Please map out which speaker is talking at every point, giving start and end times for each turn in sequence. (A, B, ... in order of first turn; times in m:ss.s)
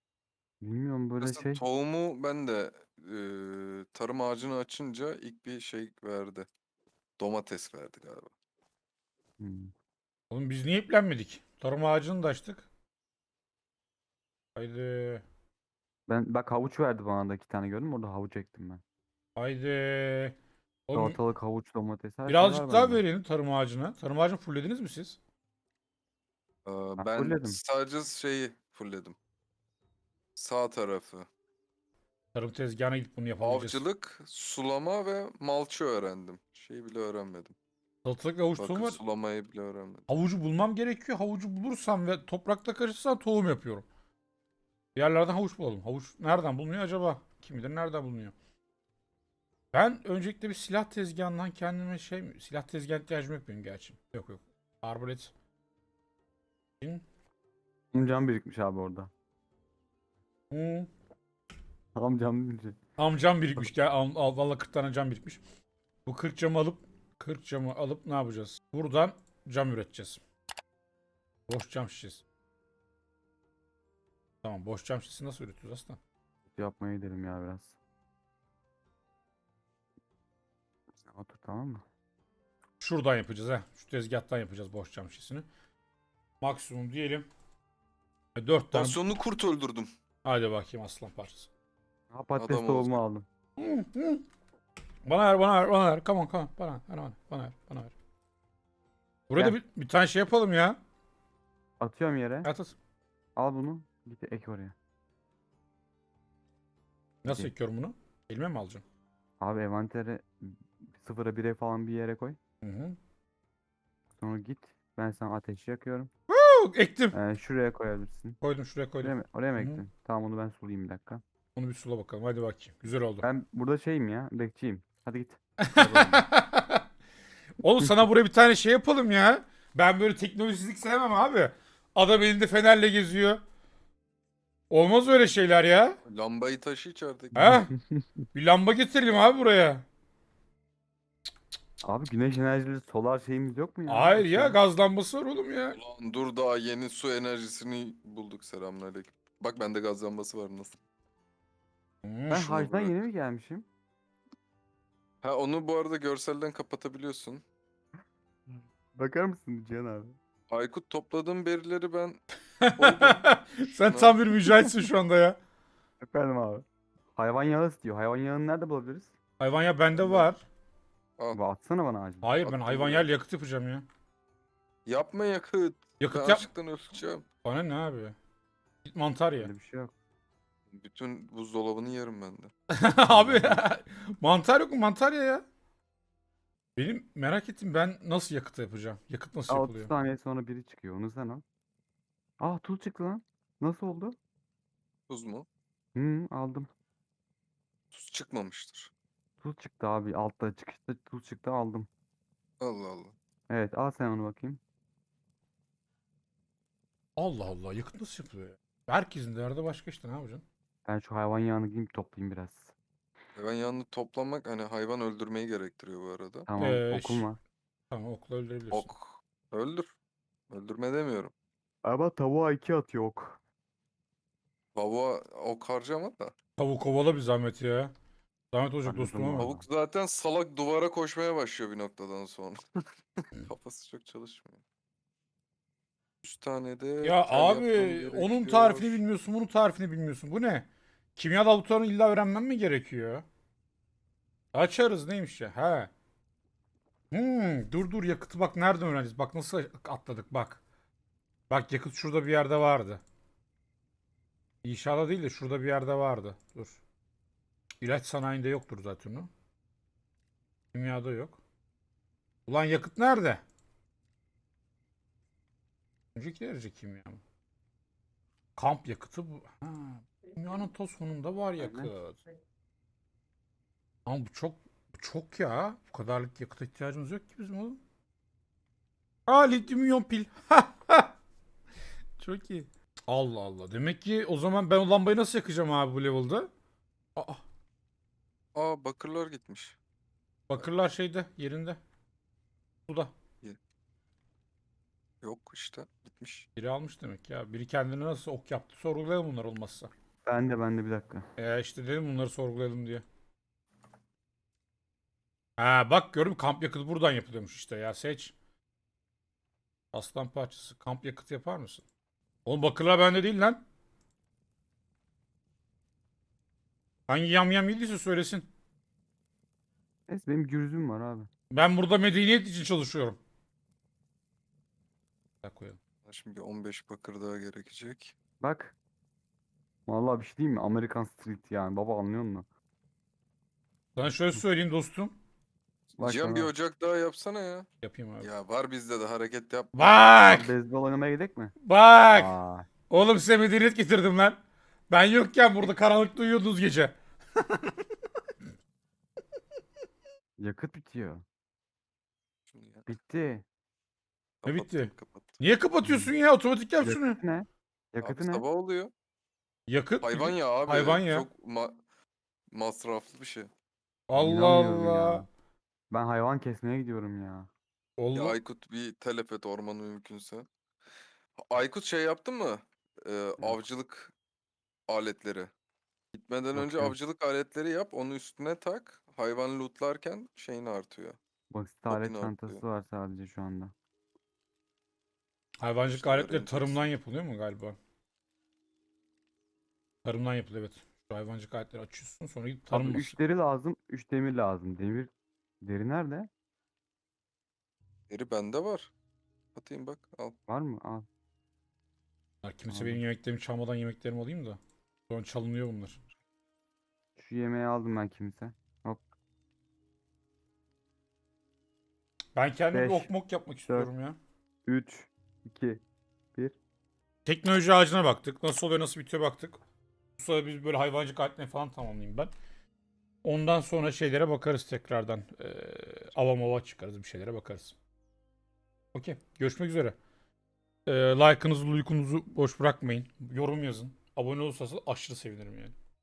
0:00.6-0:01.6 A
0:01.2-0:06.5 B
0:07.2-0:08.3 B
0:09.4-0:09.7 A
0:10.3-0:12.7 C
0:14.6-0:15.2 C
0:16.1-0:18.8 A
0:19.4-0:20.4 C
0:20.9-0:21.2 C
0:20.9-0:23.1 A
0:22.3-0:25.2 C
0:26.6-0:29.2 B
0:27.0-0:27.6 A
0:30.4-0:31.3 B
0:32.3-0:33.8 C
0:33.4-0:37.6 B
0:38.0-0:39.0 C
0:38.6-0:40.1 B
0:40.1-0:43.9 C
0:45.0-0:48.3 C
0:49.7-0:55.3 C
0:57.9-0:59.1 A
1:00.5-1:00.9 C
1:02.0-1:02.8 A
1:03.0-1:05.4 C
1:06.1-1:10.2 C
1:11.5-1:12.2 C
1:14.4-1:16.0 C
1:16.5-1:17.8 A
1:21.0-1:21.8 A
1:22.8-1:25.5 C
1:26.4-1:27.3 C
1:28.4-1:29.0 C
1:28.7-1:29.9 B
1:30.2-1:31.5 C
1:32.1-1:33.3 A
1:32.4-1:33.0 B
1:33.6-1:34.2 C
1:35.0-1:38.0 C
1:39.3-1:40.8 C
1:41.8-1:42.5 A
1:42.4-1:42.8 C
1:43.4-1:44.8 A
1:47.2-1:48.8 C
1:47.3-1:47.5 A
1:49.4-1:52.4 A
1:52.6-1:53.0 C
1:54.2-1:56.1 A
1:56.3-1:57.2 C
1:57.1-1:58.4 A
1:58.4-1:59.8 C
1:59.0-2:01.2 A
2:01.6-2:03.3 C
2:03.2-2:06.2 A
2:05.6-2:06.8 C
2:07.6-2:13.4 C
2:14.7-2:16.0 C
2:16.1-2:17.5 B
2:17.4-2:17.7 C
2:17.4-2:18.3 A
2:18.3-2:19.9 C
2:21.8-2:24.6 A
2:23.9-2:25.8 C
2:25.8-2:30.8 B
2:32.0-2:32.4 C
2:32.3-2:33.7 A
2:32.3-2:33.0 B
2:35.2-2:37.4 B
2:38.5-2:40.2 A
2:40.5-2:42.2 B
2:42.6-2:45.4 C
2:42.8-2:44.3 B
2:46.0-2:49.1 A
2:49.4-2:50.4 C
2:50.0-2:50.3 B
2:51.3-2:52.4 A
2:52.2-2:53.9 C
2:52.4-2:53.1 B
2:54.9-2:57.2 B
2:56.0-2:56.5 C
2:57.4-2:58.2 C
2:58.9-2:59.5 C
2:59.4-2:59.9 A
3:00.7-3:02.5 B
3:02.7-3:05.4 C
3:03.0-3:03.6 A
3:06.8-3:09.9 C
3:09.5-3:11.4 A
3:12.4-3:14.2 A
3:15.1-3:15.5 B
3:16.0-3:16.7 A
3:17.9-3:18.9 B
3:19.4-3:21.9 A
3:22.6-3:23.1 B
3:23.5-3:24.6 A
3:27.2-3:30.4 C
3:30.9-3:32.8 A
3:33.4-3:36.5 B
3:36.5-3:37.4 A
3:36.6-3:37.3 C
3:37.9-3:38.9 C
3:38.7-3:39.9 B
3:40.5-3:41.3 B
3:41.8-3:43.4 A
3:44.8-3:46.3 B
3:46.6-3:47.9 C
3:48.5-3:49.5 C
3:48.8-3:49.6 A
3:49.4-3:52.6 B
3:53.2-3:54.6 B
3:56.2-3:59.0 B
3:57.0-4:03.2 C
4:04.5-4:05.9 C
4:07.1-4:10.6 C
4:11.5-4:13.0 C
4:14.6-4:16.8 C
4:17.8-4:19.3 C
4:20.7-4:21.4 C
4:22.5-4:23.4 C
4:26.2-4:27.2 C
4:28.6-4:32.2 C
4:31.6-4:31.9 A
4:34.1-4:37.8 C
4:39.3-4:41.2 C
4:42.2-4:46.5 C
4:47.2-4:47.4 C
4:48.6-4:49.8 B
4:50.5-4:51.8 C
4:52.9-4:53.1 C
4:55.2-4:56.5 B
4:56.6-4:59.9 C
5:00.2-5:01.3 A
5:01.4-5:03.0 C
5:05.6-5:08.4 C
5:09.9-5:11.8 C
5:12.4-5:13.6 C
5:17.1-5:18.5 C
5:20.1-5:21.3 A
5:21.5-5:23.2 C
5:25.4-5:25.8 C
5:26.1-5:28.1 B
5:28.4-5:28.8 A
5:29.9-5:32.5 A
5:34.0-5:35.2 C
5:36.0-5:37.7 B
5:36.0-5:36.5 A
5:37.8-5:38.3 C
5:38.2-5:39.8 B
5:39.7-5:40.5 C
5:40.3-5:41.6 A
5:41.6-5:42.4 C
5:42.1-5:42.7 A
5:42.9-5:44.4 C
5:44.9-5:47.8 C
5:50.4-5:51.2 A
5:52.5-5:52.8 B
5:52.9-5:53.4 A
5:54.4-5:55.4 B
5:54.5-5:57.2 C
5:55.8-5:56.1 A
5:56.8-5:58.4 A
5:58.0-5:58.9 B
5:59.7-6:01.3 C
6:00.0-6:01.8 B
6:02.5-6:03.5 B
6:04.1-6:05.2 C
6:04.2-6:05.3 A
6:05.9-6:07.5 A
6:08.0-6:08.4 C
6:08.1-6:10.5 B
6:11.4-6:14.1 B
6:14.9-6:15.5 B
6:16.1-6:21.2 B
6:16.6-6:17.0 A
6:21.5-6:23.7 A
6:21.9-6:22.6 B
6:25.6-6:27.8 C
6:25.9-6:26.9 B
6:30.0-6:33.2 C
6:32.7-6:35.1 A
6:35.6-6:36.3 A
6:38.1-6:38.9 B
6:39.6-6:40.4 B
6:40.5-6:41.1 A
6:42.4-6:46.0 C
6:42.7-6:43.0 A
6:47.2-6:49.0 A
6:52.4-6:54.2 C
6:52.7-6:53.1 A
6:54.7-6:55.8 A
6:57.2-6:59.6 C
7:00.2-7:02.3 C
7:03.2-7:07.8 C
7:08.9-7:10.0 C
7:10.9-7:15.8 C